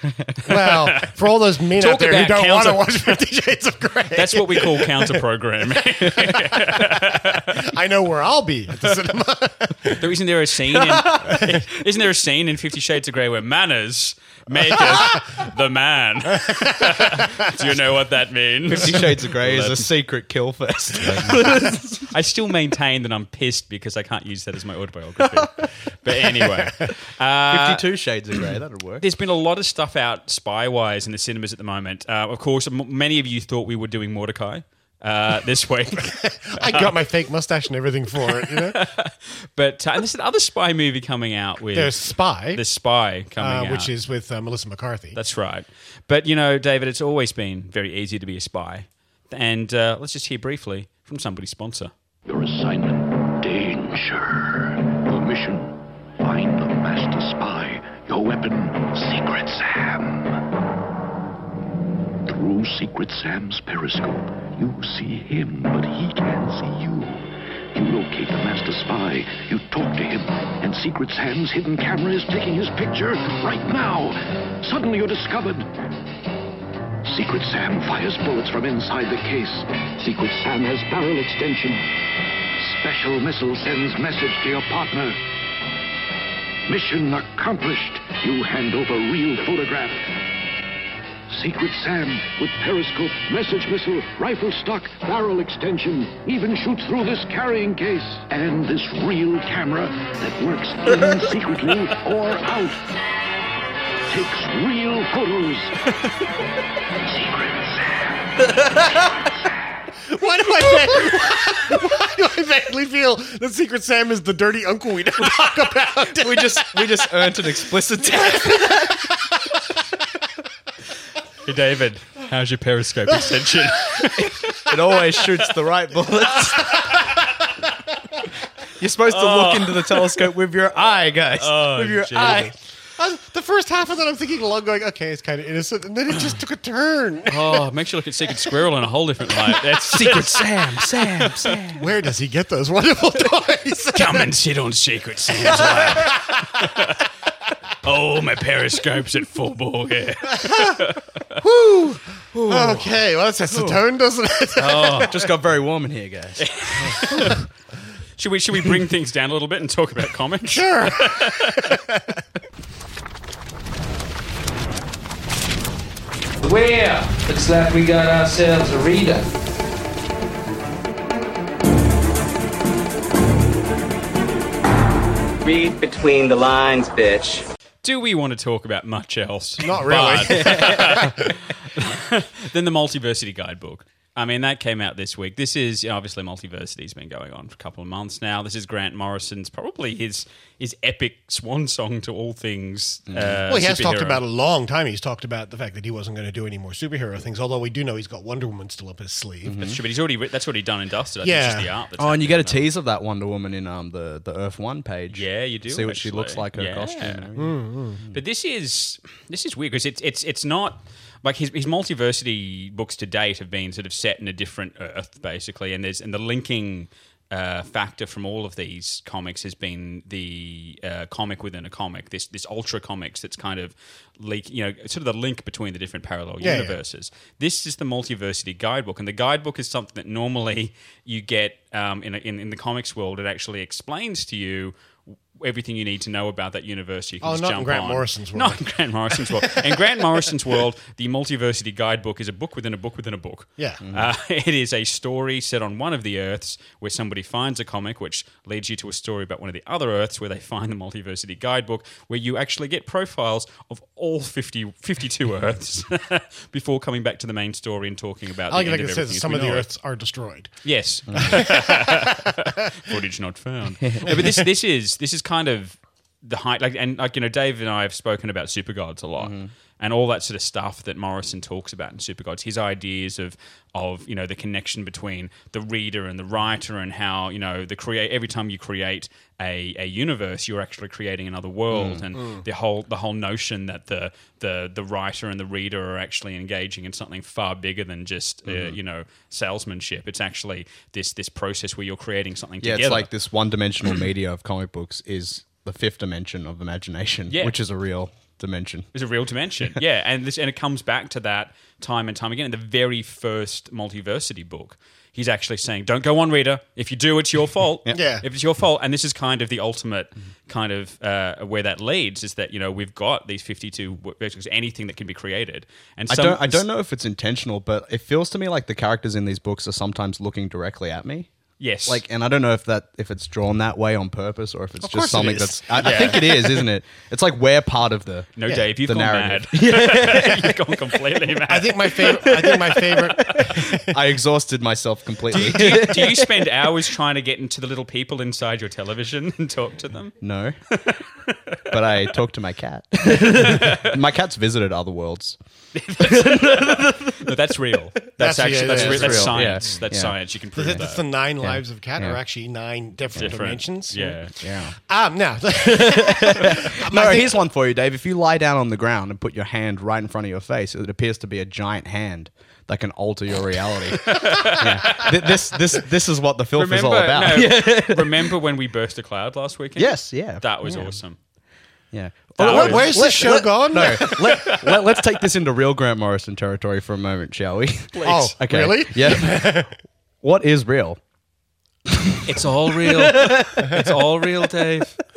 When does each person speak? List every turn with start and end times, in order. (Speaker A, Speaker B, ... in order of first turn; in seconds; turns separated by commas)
Speaker A: 0.5-1.2, Speaker B: 0.5-5.2, Speaker A: 1.8-3.2, Speaker A: 4.2-7.5, Speaker B: 6.0-10.1, Speaker A: 10.0-19.9, Speaker B: 14.8-15.2, Speaker B: 16.4-17.4, Speaker C: 18.7-22.1, Speaker A: 21.0-21.4, Speaker A: 22.1-27.9, Speaker C: 25.2-25.6, Speaker B: 26.3-26.9, Speaker C: 27.5-29.1, Speaker A: 29.0-36.9, Speaker B: 36.1-38.8, Speaker A: 38.5-43.9, Speaker B: 41.7-42.6, Speaker B: 43.4-45.2, Speaker A: 45.1-51.9, Speaker D: 52.2-60.4, Speaker D: 62.3-75.7, Speaker D: 77.0-81.8, Speaker D: 82.6-85.2, Speaker D: 86.7-90.1, Speaker D: 91.3-102.9, Speaker D: 104.1-105.8, Speaker D: 107.0-108.8, Speaker B: 110.1-117.4, Speaker C: 116.1-119.1, Speaker A: 121.5-124.7, Speaker C: 124.2-127.0, Speaker C: 128.8-132.5, Speaker A: 129.1-130.1, Speaker A: 131.4-132.5, Speaker B: 132.2-137.7, Speaker A: 137.3-141.6, Speaker C: 139.9-141.8, Speaker B: 141.8-144.3, Speaker A: 143.9-147.0, Speaker B: 145.5-146.0, Speaker A: 147.8-151.2, Speaker B: 150.4-150.8, Speaker B: 151.4-155.3, Speaker C: 152.5-152.8, Speaker C: 153.5-153.8, Speaker A: 154.6-155.2, Speaker C: 155.0-157.1, Speaker A: 156.4-157.4, Speaker A: 158.2-161.7, Speaker B: 160.5-162.2, Speaker E: 166.4-169.3, Speaker F: 175.4-177.5, Speaker A: 177.8-194.2, Speaker B: 179.6-181.4, Speaker C: 193.1-193.4, Speaker B: 193.5-199.6, Speaker C: 199.4-199.8, Speaker A: 199.6-202.7, Speaker B: 201.2-201.7, Speaker C: 202.0-208.2, Speaker A: 205.1-207.3, Speaker B: 207.4-208.0, Speaker A: 208.1-234.7, Speaker B: 226.4-226.8, Speaker A: 235.3-259.7, Speaker B: 237.2-240.3, Speaker B: 243.6-243.9, Speaker B: 258.5-260.5, Speaker A: 260.6-293.1, Speaker B: 261.1-262.2, Speaker B: 264.1-264.3, Speaker C: 269.2-269.5, Speaker C: 281.7-282.0, Speaker B: 282.2-282.4, Speaker C: 288.5-288.8, Speaker C: 292.6-298.9, Speaker A: 297.3-297.6, Speaker A: 298.9-316.7, Speaker B: 307.9-308.3, Speaker C: 316.1-321.3, Speaker A: 321.6-322.0, Speaker C: 321.9-330.9, Speaker B: 324.8-326.3, Speaker A: 325.8-326.6, Speaker A: 328.4-332.5, Speaker B: 331.5-333.9, Speaker C: 332.2-336.5, Speaker A: 333.2-333.5, Speaker A: 335.3-340.2, Speaker C: 340.2-340.6, Speaker A: 340.8-341.6, Speaker C: 341.7-345.4, Speaker A: 343.2-344.0, Speaker A: 345.8-351.0, Speaker C: 346.0-347.3, Speaker B: 348.2-349.7, Speaker C: 348.6-350.1, Speaker B: 350.6-354.2, Speaker C: 351.4-352.2, Speaker A: 353.2-354.4, Speaker C: 354.4-354.8, Speaker B: 354.8-357.4, Speaker C: 355.6-368.4, Speaker A: 364.0-365.6, Speaker A: 366.5-371.2, Speaker C: 369.8-370.9, Speaker C: 371.9-379.7, Speaker A: 372.4-374.9, Speaker B: 372.4-374.4, Speaker A: 377.9-378.4, Speaker B: 378.1-379.7, Speaker C: 380.2-381.0, Speaker C: 381.9-382.2, Speaker A: 382.3-385.0, Speaker C: 382.8-383.9